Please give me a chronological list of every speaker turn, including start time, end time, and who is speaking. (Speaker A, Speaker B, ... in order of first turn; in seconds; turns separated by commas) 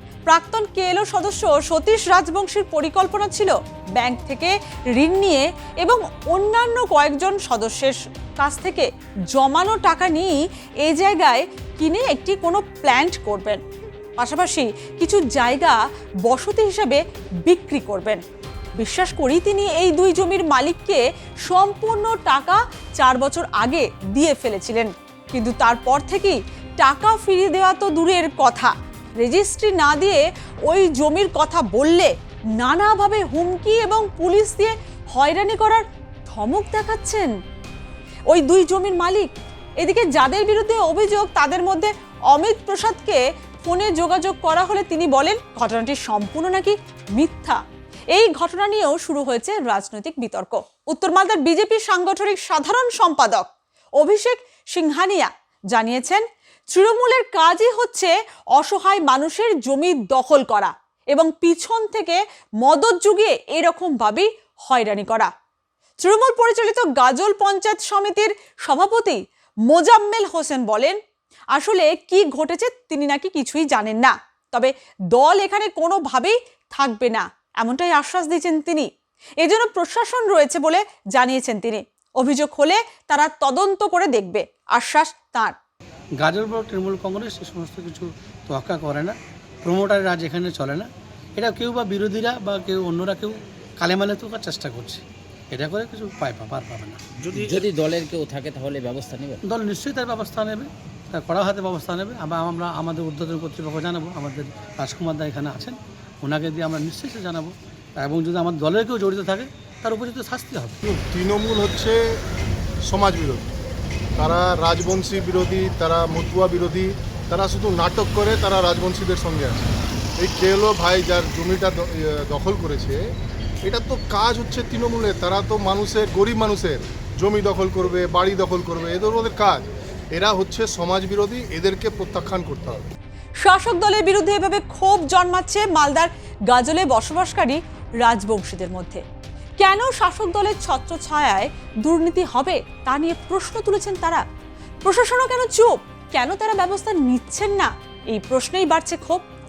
Speaker A: 0.3-13.6, Speaker A: 14.2-18.2, Speaker A: 18.8-37.3, Speaker A: 38.3-47.6, Speaker A: 48.1-53.5, Speaker A: 54.0-65.3, Speaker A: 66.0-71.0, Speaker A: 71.5-78.9, Speaker A: 79.4-85.5, Speaker B: 86.2-97.6, Speaker C: 97.3-99.4, Speaker B: 99.5-110.8, Speaker D: 110.8-112.0, Speaker D: 112.8-113.5, Speaker D: 114.2-123.0, Speaker D: 123.7-132.9, Speaker A: 133.4-139.0, Speaker A: 139.6-144.2, Speaker A: 144.8-149.2